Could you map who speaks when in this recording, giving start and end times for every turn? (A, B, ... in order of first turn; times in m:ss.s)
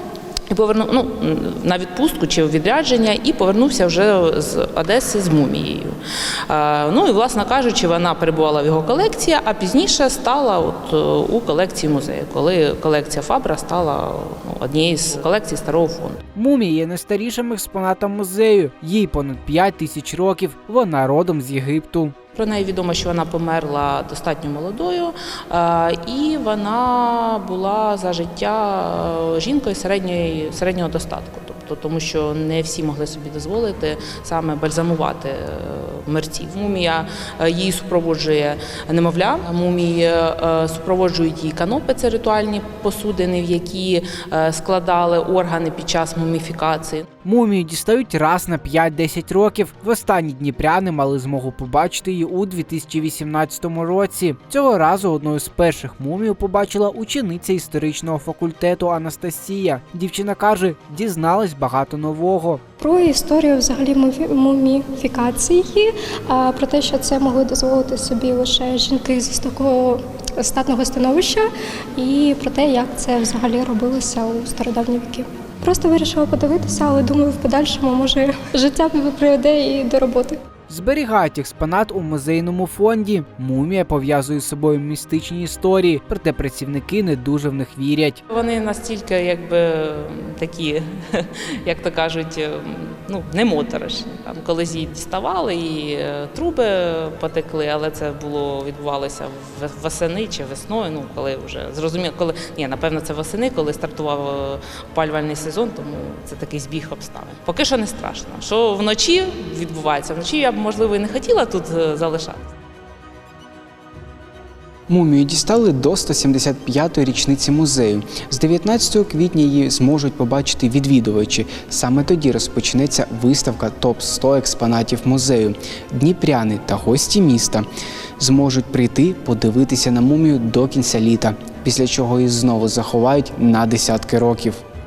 0:00.5-0:05.9 A
0:06.5-0:16.2 A
0:16.3-0:22.1 B
0:22.3-0:47.0 A
0:47.2-1:02.6 B
1:02.8-1:20.4 C
1:20.7-1:28.2 B
1:28.3-1:52.5 A
1:54.9-2:07.6 D
2:08.2-2:14.6 D